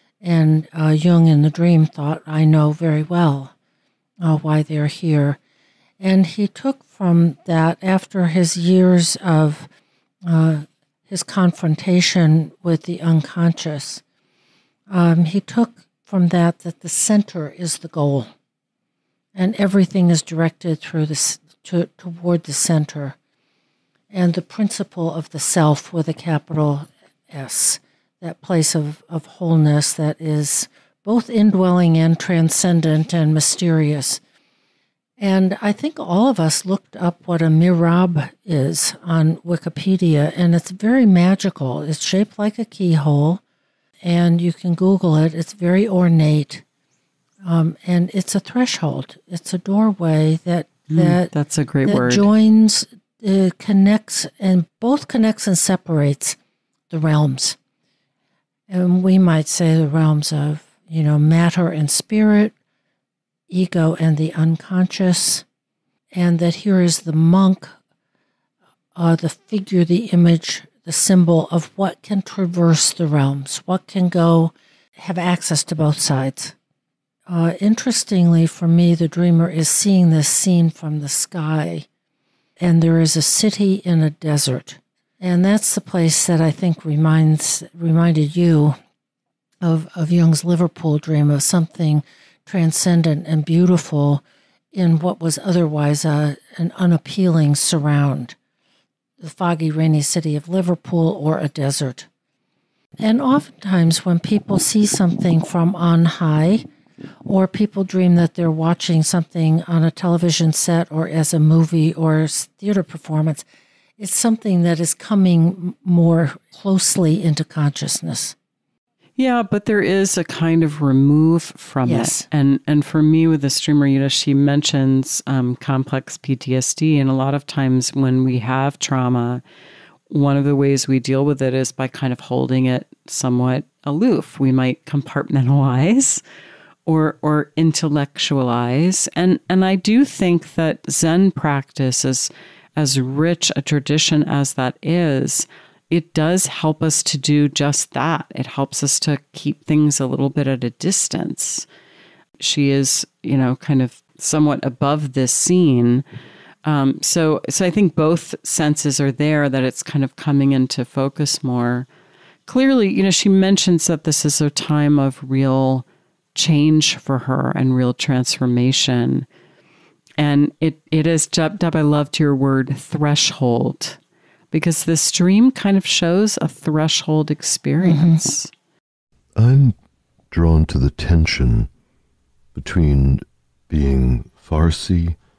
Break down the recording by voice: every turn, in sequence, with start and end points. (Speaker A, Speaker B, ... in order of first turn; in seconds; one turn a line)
Speaker A: 0.2-3.5
Speaker A: 4.2-5.4
Speaker A: 6.0-9.7
Speaker A: 10.2-14.0
Speaker A: 14.9-18.3
Speaker A: 19.3-23.1
Speaker A: 24.1-34.2
Speaker A: 35.2-43.4
Speaker A: 44.0-46.6
Speaker A: 47.4-51.3
Speaker B: 50.9-52.3
Speaker A: 51.9-56.4
Speaker A: 56.9-57.6
Speaker A: 58.7-62.5
Speaker A: 63.5-65.4
Speaker A: 66.1-67.7
Speaker A: 69.0-76.5
Speaker A: 77.3-81.9
Speaker A: 82.6-88.8
Speaker A: 89.6-94.2
Speaker A: 94.7-98.3
Speaker A: 99.2-102.1
Speaker A: 103.0-106.7
Speaker A: 107.2-113.4
Speaker A: 114.0-118.3
Speaker B: 119.2-129.4
Speaker A: 121.8-122.2
Speaker B: 130.1-136.2
Speaker B: 136.8-151.7
Speaker B: 152.4-156.0
Speaker B: 156.6-161.9
Speaker B: 162.4-169.2
Speaker B: 170.2-174.0
Speaker B: 174.5-178.5
Speaker A: 177.8-178.2
Speaker C: 179.3-179.8
Speaker C: 180.3-181.7
Speaker C: 182.5-185.2